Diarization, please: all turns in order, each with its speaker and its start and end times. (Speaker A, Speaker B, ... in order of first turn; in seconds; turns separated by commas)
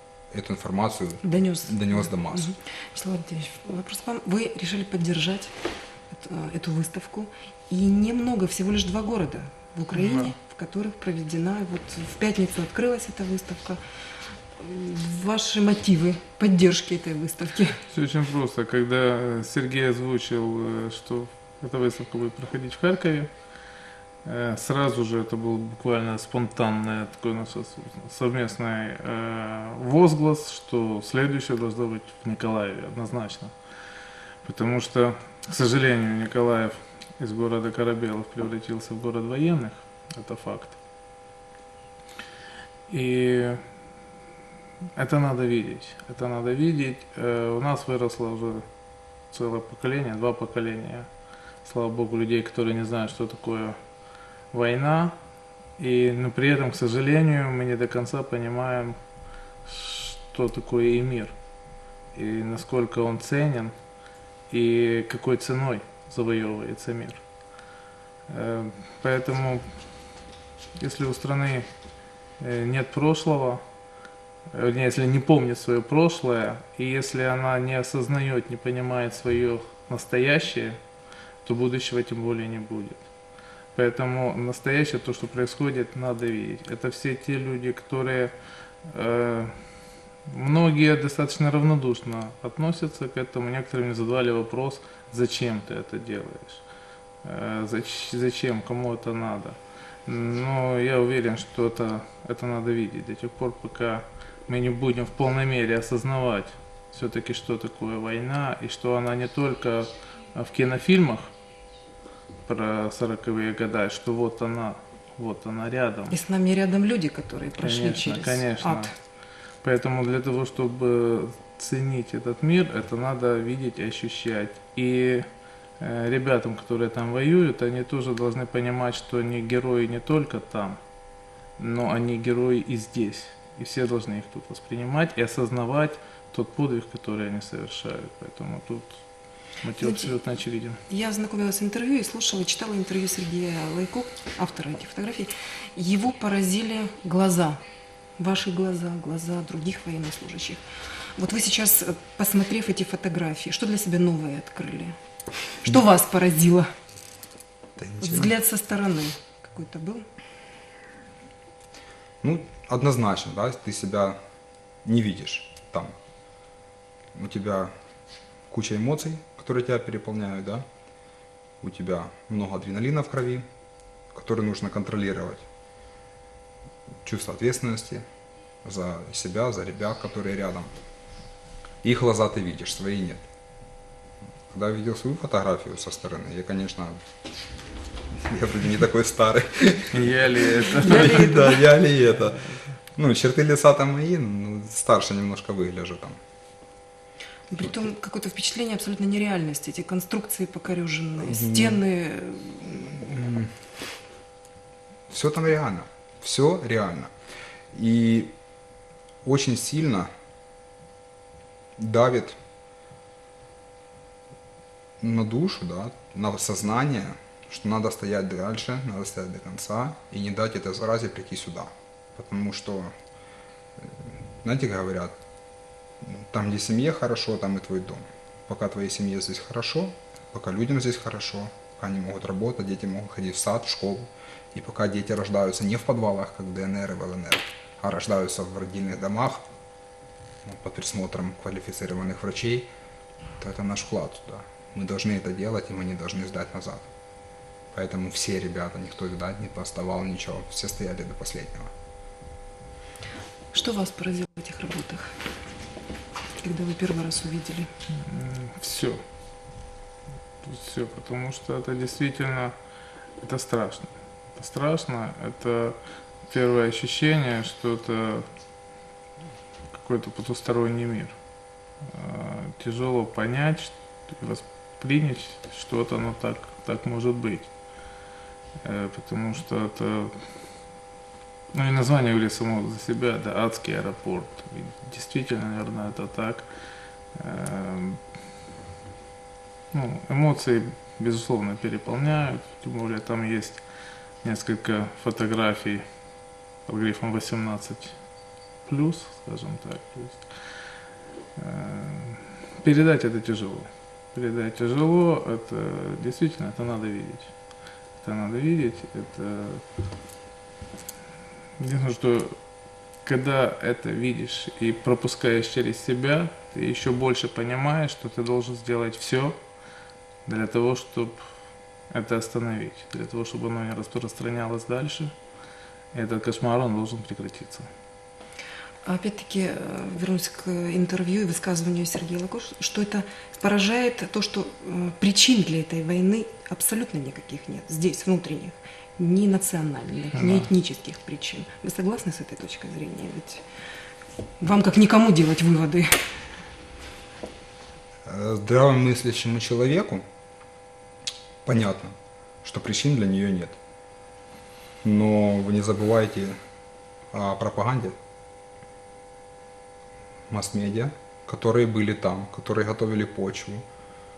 Speaker A: 0.3-2.5, Speaker B: 1.2-5.5, Speaker B: 6.1-13.8, Speaker C: 10.0-10.3, Speaker B: 14.6-17.8, Speaker C: 17.9-23.3, Speaker C: 24.2-33.5, Speaker C: 34.4-40.8, Speaker C: 42.9-43.6, Speaker C: 45.0-48.7, Speaker C: 49.3-51.1, Speaker C: 51.6-53.8, Speaker C: 54.5-55.2, Speaker C: 55.8-59.0, Speaker C: 59.6-61.4, Speaker C: 62.1-63.7, Speaker C: 64.5-67.2, Speaker C: 68.3-69.7, Speaker C: 70.8-71.7, Speaker C: 72.4-73.6, Speaker C: 74.5-80.8, Speaker C: 81.4-83.0, Speaker C: 83.8-88.3, Speaker C: 88.9-89.7, Speaker C: 90.3-96.6, Speaker C: 97.2-111.3, Speaker C: 112.5-116.2, Speaker B: 116.1-118.9, Speaker C: 117.6-118.9, Speaker C: 119.6-125.3, Speaker C: 125.8-130.8, Speaker C: 131.6-139.0, Speaker C: 139.6-140.8, Speaker B: 139.8-140.1, Speaker B: 140.9-147.6, Speaker B: 148.2-150.6, Speaker B: 151.2-154.9, Speaker B: 155.6-156.7, Speaker A: 157.8-158.3, Speaker B: 158.0-160.1, Speaker A: 162.2-164.2, Speaker A: 164.8-165.9, Speaker A: 167.2-167.7, Speaker A: 168.5-170.7, Speaker A: 171.6-173.4, Speaker A: 174.1-175.5, Speaker A: 177.0-178.1, Speaker A: 178.7-180.7, Speaker A: 181.8-183.2, Speaker A: 184.5-187.0, Speaker A: 188.2-192.4, Speaker C: 189.9-191.7, Speaker B: 190.8-191.7, Speaker A: 193.0-196.2, Speaker B: 197.5-203.0, Speaker A: 201.2-201.8, Speaker A: 203.0-203.5, Speaker A: 205.1-207.1, Speaker A: 207.7-208.3, Speaker A: 209.2-210.1, Speaker A: 211.8-212.4, Speaker A: 215.0-222.9, Speaker A: 223.8-225.2, Speaker A: 226.0-239.4, Speaker A: 240.4-242.7, Speaker A: 243.4-246.9, Speaker A: 247.7-251.7, Speaker B: 253.5-255.1, Speaker B: 256.4-257.7, Speaker C: 258.0-259.0, Speaker C: 260.4-262.6, Speaker C: 263.2-268.3, Speaker C: 269.7-271.2, Speaker C: 271.8-277.5, Speaker C: 278.6-280.2, Speaker C: 281.5-286.5, Speaker C: 287.1-288.0, Speaker C: 289.7-293.6, Speaker C: 294.2-295.8, Speaker C: 296.7-297.9, Speaker C: 298.7-300.2, Speaker C: 301.4-307.3, Speaker C: 308.0-309.6, Speaker C: 311.6-312.4, Speaker C: 313.0-319.4, Speaker C: 320.3-321.2, Speaker C: 321.9-325.1, Speaker C: 325.9-327.7, Speaker B: 328.9-343.4, Speaker C: 340.1-340.5, Speaker B: 344.4-346.0, Speaker A: 348.1-350.0, Speaker A: 351.4-353.6, Speaker A: 354.8-356.4, Speaker A: 357.1-358.0, Speaker A: 360.3-363.6